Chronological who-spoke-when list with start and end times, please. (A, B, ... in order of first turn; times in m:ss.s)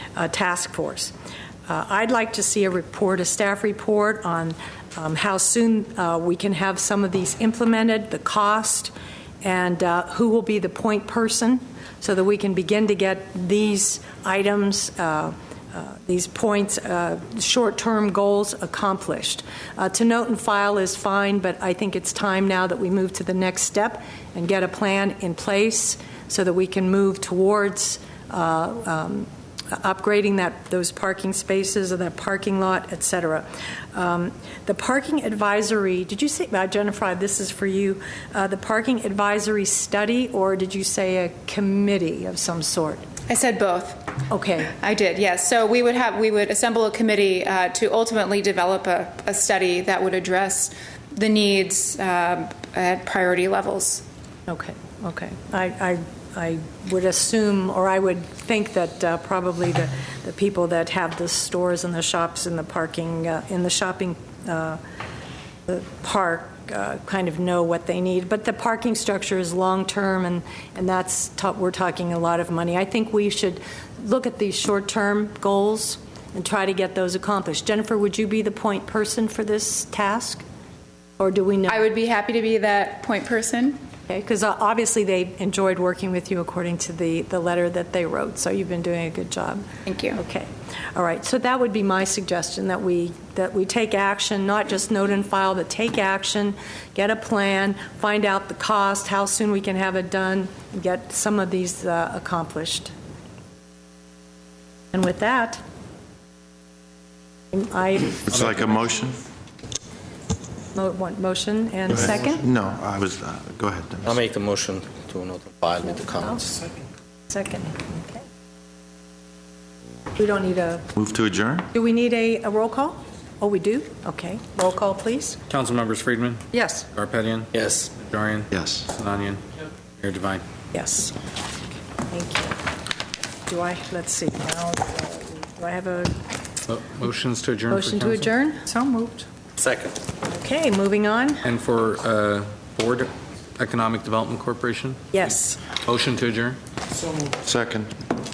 0:00.2-0:01.1 A
0:01.7-0:43.0 A
0:43.3-0:44.1 B
0:44.3-0:44.8 A
0:44.7-0:54.0 B
0:54.5-1:04.8 A
1:05.7-1:20.4 A
1:21.2-1:21.8 A
1:21.7-1:23.8 B
1:24.1-1:42.9 A
1:29.9-1:30.2 B
1:44.9-1:45.6 A
1:47.5-1:48.8 A
1:48.3-1:49.2 C
1:50.7-1:52.4 A
1:51.9-1:54.2 C
1:54.1-1:56.6 D
1:57.3-1:58.2 A
2:00.2-2:00.8 A
2:01.0-2:01.7 C
2:01.7-2:05.4 A
2:05.5-2:09.4 E
2:06.5-2:06.8 A
2:07.5-2:07.9 D
2:08.5-2:08.8 C
2:10.0-2:10.4 E
2:10.7-2:11.2 A
2:12.1-2:12.6 A
2:13.5-2:16.2 A
2:16.7-2:18.3 E
2:17.7-2:19.2 A
2:19.6-2:20.0 D
2:20.2-2:21.4 A
2:21.4-2:26.6 E
2:25.1-2:25.6 A
2:27.4-2:27.9 C